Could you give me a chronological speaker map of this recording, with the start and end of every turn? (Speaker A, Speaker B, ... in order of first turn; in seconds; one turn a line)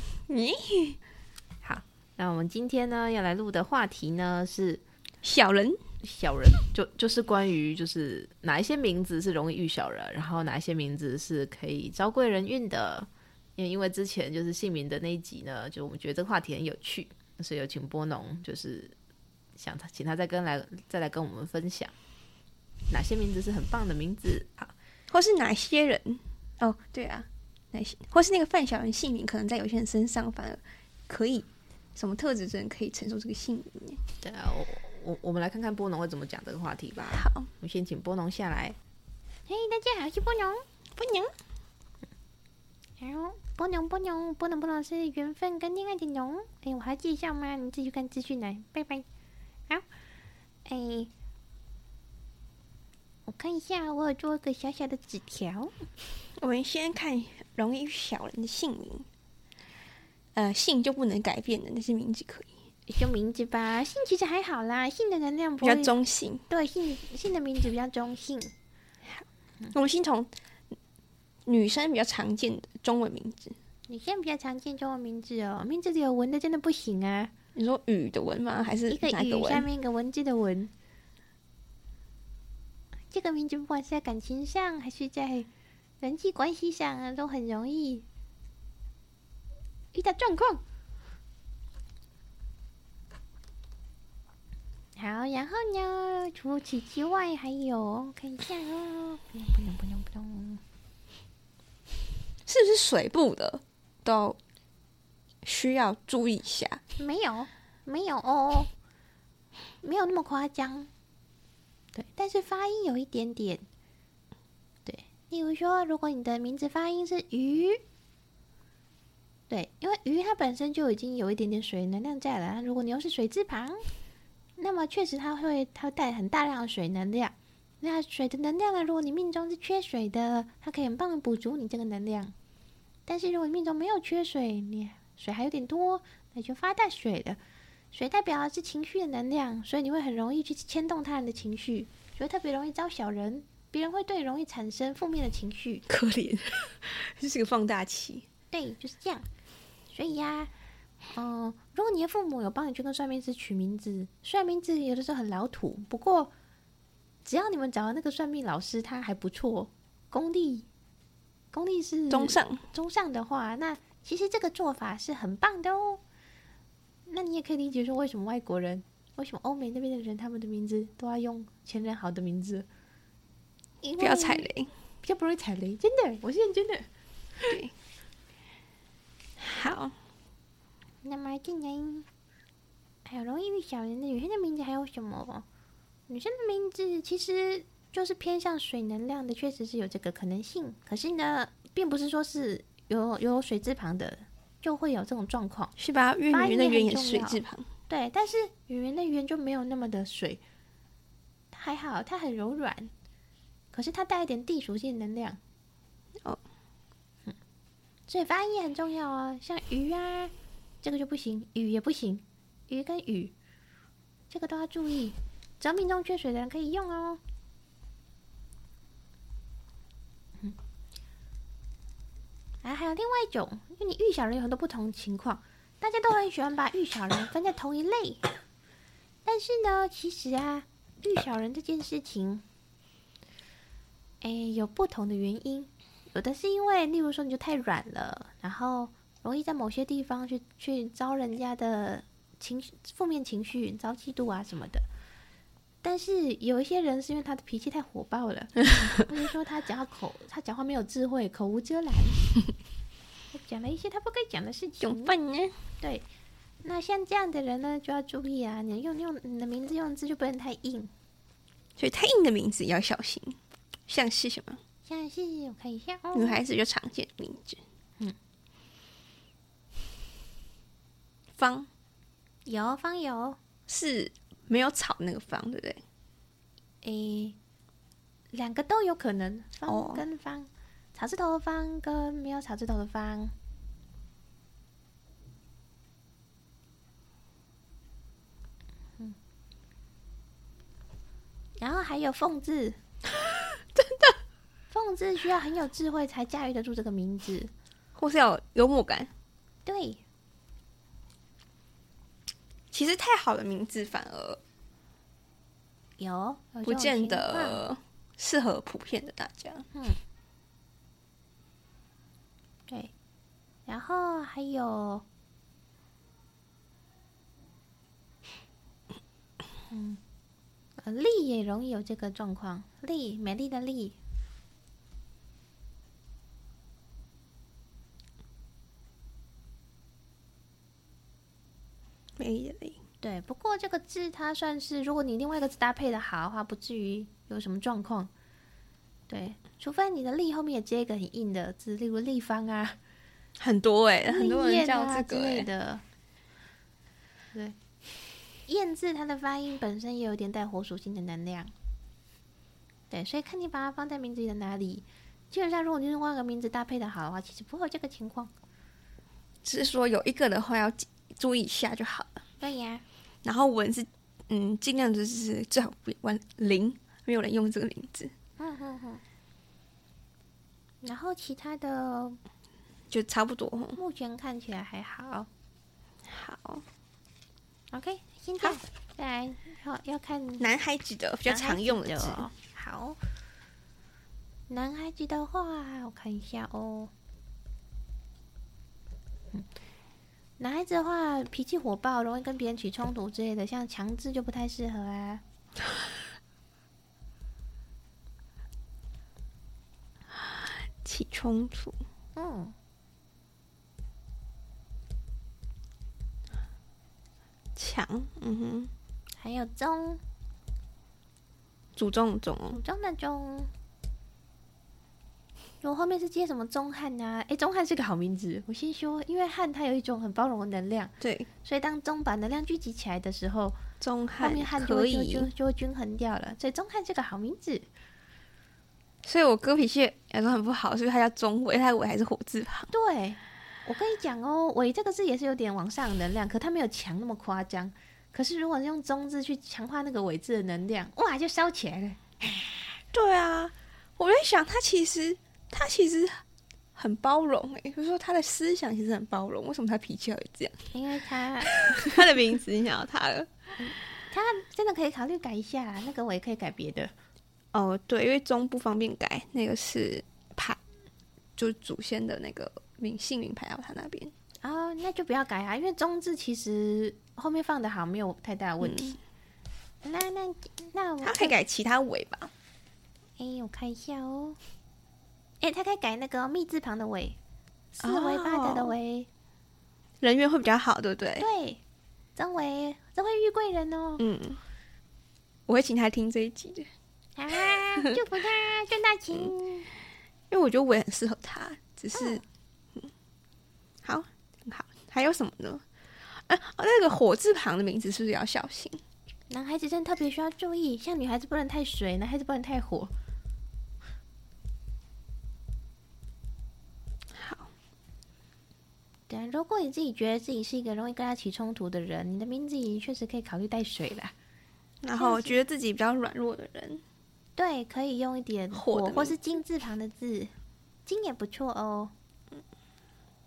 Speaker A: 0.3-1.0
Speaker B: 1.7-4.8
Speaker A: 5.2-5.8
Speaker C: 6.0-13.1
Speaker C: 13.6-18.9
Speaker B: 14.4-18.9
Speaker C: 19.6-21.9
Speaker B: 19.6-21.9
Speaker B: 22.9-24.1
Speaker C: 24.1-24.6
Speaker A: 25.1-34.0
Speaker B: 34.2-34.7
Speaker C: 34.3-35.3
Speaker B: 35.2-37.1
Speaker C: 36.0-36.6
Speaker A: 37.0-37.5
Speaker C: 37.1-37.9
Speaker B: 37.9-38.6
Speaker B: 39.5-40.6
Speaker A: 41.0-41.3
Speaker B: 43.0-49.1
Speaker B: 50.6-51.1
Speaker B: 53.3-55.8
Speaker A: 56.4-59.1
Speaker A: 60.4-62.5
Speaker B: 62.9-65.9
Speaker A: 65.6-66.5
Speaker B: 66.5-68.5
Speaker A: 69.7-70.3
Speaker A: 71.5-73.6
Speaker B: 73.9-77.3
Speaker A: 77.5-79.7
Speaker B: 78.9-80.7
Speaker B: 83.1-85.5
Speaker B: 86.0-88.1
Speaker B: 89.9-90.6
Speaker B: 95.0-100.6
Speaker A: 102.5-104.4
Speaker A: 105.4-106.8
Speaker B: 107.0-108.7
Speaker B: 109.8-110.9
Speaker B: 111.9-113.7
Speaker B: 114.9-117.8
Speaker B: 119.5-123.9
Speaker B: 124.6-132.3
Speaker B: 133.1-137.4
Speaker B: 137.9-145.8
Speaker A: 145.9-148.3
Speaker B: 148.5-149.3
Speaker B: 149.9-150.5
Speaker B: 151.1-156.3
Speaker B: 157.2-160.7
Speaker B: 161.5-166.0
Speaker A: 162.1-162.7
Speaker B: 167.1-172.7
Speaker B: 173.8-174.5
Speaker A: 174.0-174.7
Speaker B: 175.0-176.8
Speaker C: 176.5-176.8
Speaker A: 177.5-177.7
Speaker A: 179.4-179.9
Speaker B: 181.0-182.1
Speaker B: 183.1-185.4
Speaker B: 186.1-195.7
Speaker A: 195.8-197.7
Speaker B: 196.3-200.4
Speaker B: 201.5-202.9
Speaker B: 203.7-205.4
Speaker B: 208.1-213.3
Speaker B: 214.3-217.2
Speaker B: 222.6-228.3
Speaker B: 229.2-232.4
Speaker B: 234.2-244.8
Speaker B: 245.8-252.2
Speaker B: 253.3-255.2
Speaker A: 254.8-255.6
Speaker B: 255.8-256.1
Speaker B: 256.6-260.9
Speaker A: 261.8-264.6
Speaker B: 264.9-266.4
Speaker A: 266.1-267.6
Speaker A: 271.4-271.7
Speaker B: 272.5-273.4
Speaker A: 273.7-275.8
Speaker B: 276.8-277.4
Speaker B: 278.3-283.3
Speaker A: 279.7-280.0
Speaker B: 291.6-292.8
Speaker A: 293.3-294.2
Speaker B: 294.7-297.5
Speaker A: 298.0-299.1
Speaker B: 299.6-300.0
Speaker A: 302.7-304.4
Speaker B: 306.0-307.6
Speaker A: 306.6-309.7
Speaker B: 309.7-310.0
Speaker B: 313.7-315.1
Speaker B: 319.7-320.0
Speaker B: 320.8-324.0
Speaker A: 332.2-332.8
Speaker B: 333.0-338.1
Speaker B: 339.1-342.8
Speaker A: 343.4-345.5
Speaker B: 344.1-345.8
Speaker B: 348.5-351.5
Speaker B: 352.9-358.3
Speaker A: 359.4-362.2
Speaker B: 362.4-362.8
Speaker A: 363.2-368.1
Speaker B: 368.4-369.0
Speaker B: 370.8-372.2
Speaker A: 372.9-373.8
Speaker B: 373.8-375.3
Speaker A: 376.1-376.6
Speaker B: 377.7-380.5
Speaker A: 380.4-382.3
Speaker B: 381.2-383.0
Speaker B: 384.5-386.9
Speaker B: 390.4-395.2
Speaker A: 400.1-401.8
Speaker B: 402.1-402.6
Speaker A: 407.6-408.7
Speaker B: 409.2-410.0
Speaker A: 411.8-412.6
Speaker B: 412.5-413.5
Speaker B: 415.6-420.9
Speaker A: 421.0-421.3
Speaker B: 421.4-423.6
Speaker A: 423.8-425.3
Speaker B: 424.2-427.7
Speaker A: 429.0-432.7
Speaker B: 432.7-442.6
Speaker A: 442.9-446.2
Speaker A: 446.8-450.7
Speaker B: 450.7-452.0
Speaker A: 451.4-453.3
Speaker B: 454.1-456.9
Speaker A: 457.5-460.6
Speaker A: 461.4-464.1
Speaker B: 464.4-469.0
Speaker A: 468.6-469.0
Speaker B: 469.8-471.4
Speaker A: 471.0-472.3
Speaker B: 473.2-474.4
Speaker B: 475.4-477.2
Speaker B: 477.8-479.1
Speaker A: 477.8-478.7
Speaker A: 480.0-481.3
Speaker B: 481.2-481.6
Speaker B: 482.2-484.1
Speaker A: 484.0-484.4
Speaker A: 485.5-486.7
Speaker B: 487.2-489.7
Speaker A: 487.5-488.0
Speaker A: 490.3-492.2
Speaker B: 491.9-492.2
Speaker A: 493.8-498.8
Speaker B: 499.3-502.9
Speaker A: 507.1-507.5
Speaker B: 509.1-514.1
Speaker A: 514.8-516.8
Speaker B: 515.0-515.4
Speaker B: 517.4-520.3
Speaker A: 518.5-519.2
Speaker B: 520.9-521.9